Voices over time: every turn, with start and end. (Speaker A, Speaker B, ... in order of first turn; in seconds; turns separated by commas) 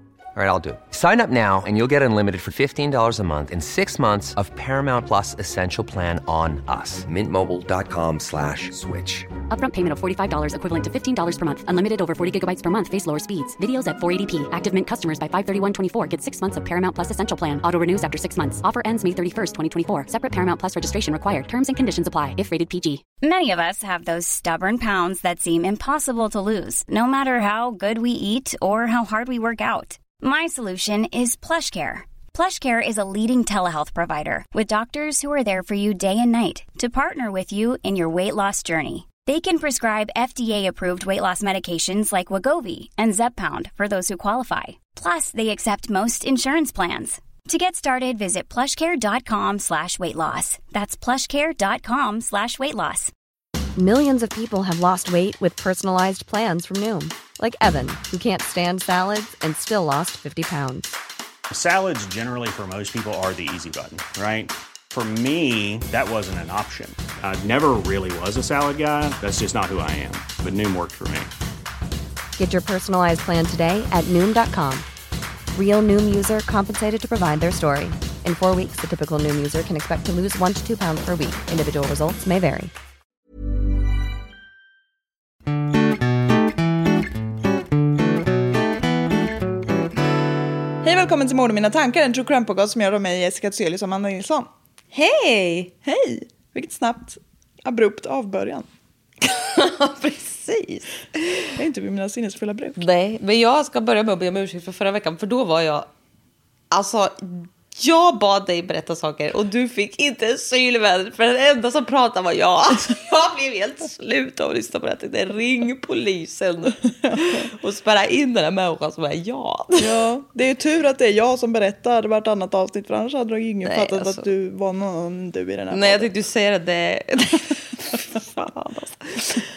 Speaker A: 0.3-9.3, Speaker B: 9.5-23.0, Speaker C: 23.2-53.1, Speaker D: 53.8-61.0, Speaker E: 61.5-71.3, Speaker D: 72.4-74.9, Speaker D: 75.5-82.7, Speaker F: 90.8-94.5, Speaker G: 94.9-95.7, Speaker F: 95.8-98.7, Speaker G: 99.2-101.0, Speaker F: 101.6-102.8, Speaker G: 102.8-105.9, Speaker G: 106.7-119.9, Speaker F: 117.1-117.4, Speaker F: 119.8-126.1, Speaker G: 123.6-124.3, Speaker G: 125.7-129.4